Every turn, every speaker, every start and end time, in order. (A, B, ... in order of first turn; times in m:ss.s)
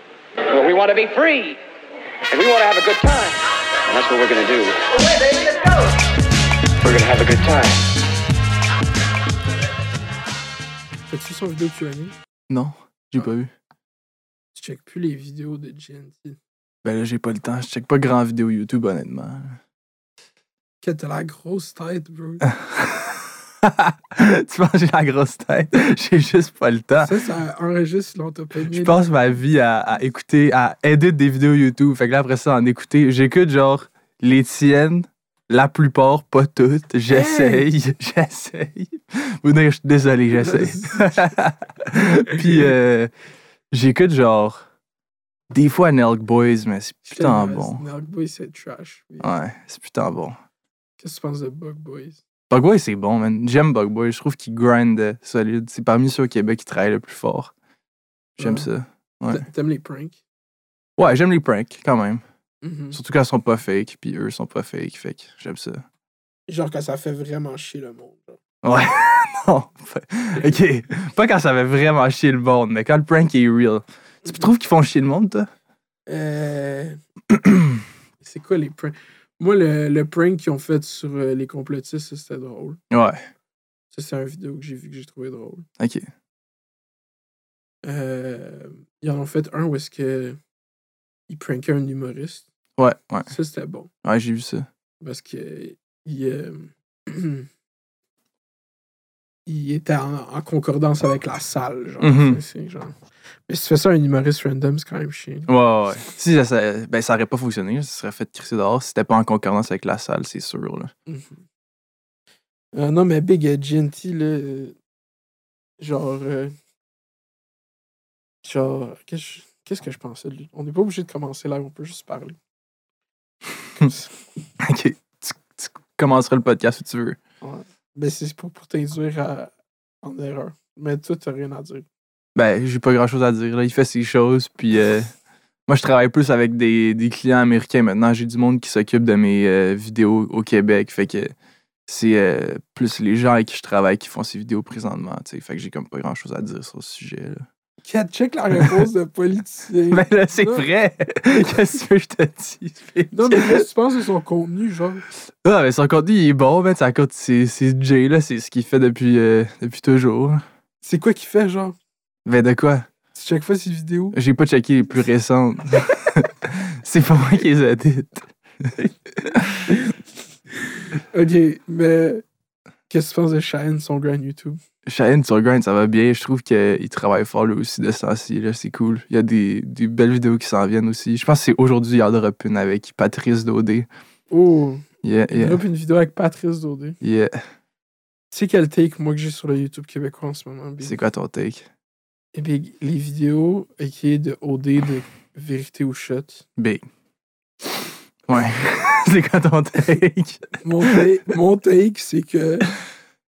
0:00.5-0:01.6 A
0:02.3-0:05.6 A
0:06.8-0:07.9 A
0:11.1-0:12.1 B
0:12.5-0:13.5 C
0:14.6-0:16.4 B
0:16.8-0:19.6 C
0:20.8-0:22.5 B
0:22.5-0:27.1 C
0:27.0-0:29.0 B
0:28.7-0:43.1 C
0:37.1-0:37.7 B
0:40.4-0:41.1 B
0:43.7-0:44.6 C
0:45.5-0:47.8 C
0:47.1-0:49.3 B
0:49.2-0:50.4 C
0:51.0-0:52.2 B
0:52.5-0:57.5 C
0:58.4-0:58.7 B
0:58.4-0:59.4 C
0:59.3-1:00.2 B
1:01.0-1:02.2 C
1:02.6-1:03.0 B
1:02.9-1:05.8 C
1:06.5-1:08.4 B
1:08.6-1:15.5 C
1:16.1-1:17.0 B
1:17.3-1:17.7 C
1:18.2-1:22.8 B
1:22.9-1:23.2 C
1:23.9-1:25.6 B
1:25.8-1:26.1 C
1:27.8-1:30.4 B
1:31.3-1:32.5 B
1:32.8-1:33.3 C
1:33.3-1:33.9 B
1:34.0-1:34.7 C
1:35.0-1:37.5 B
1:39.5-1:42.9 B
1:42.0-1:42.4 C
1:43.5-1:45.5 B
1:45.5-1:50.9 C
1:51.1-1:51.4 B
1:52.8-1:54.8 B
1:55.8-1:56.6 B
1:58.4-2:02.4 B
2:03.8-2:04.1 B
2:04.6-2:07.2 C
2:07.4-2:09.5 B
2:10.0-2:11.8 B
2:12.4-2:15.1 C
2:15.7-2:21.3 C
2:21.9-2:27.4 C
2:27.8-2:30.7 B
2:29.9-2:33.6 C
2:33.1-2:35.0 B
2:35.4-2:40.4 C
2:40.8-2:41.8 B
2:42.3-2:42.9 C
2:43.1-2:44.2 B
2:44.1-2:49.6 C
2:49.7-2:49.9 B
2:51.0-2:52.2 B
2:52.9-2:54.6 B
2:54.9-3:03.9 C
3:04.3-3:07.0 B
3:05.0-3:05.6 C
3:07.0-3:07.4 C
3:08.3-3:11.0 B
3:10.8-3:11.7 C
3:12.4-3:16.4 B
3:16.6-3:16.8 C
3:18.3-3:21.0 C
3:20.6-3:22.7 B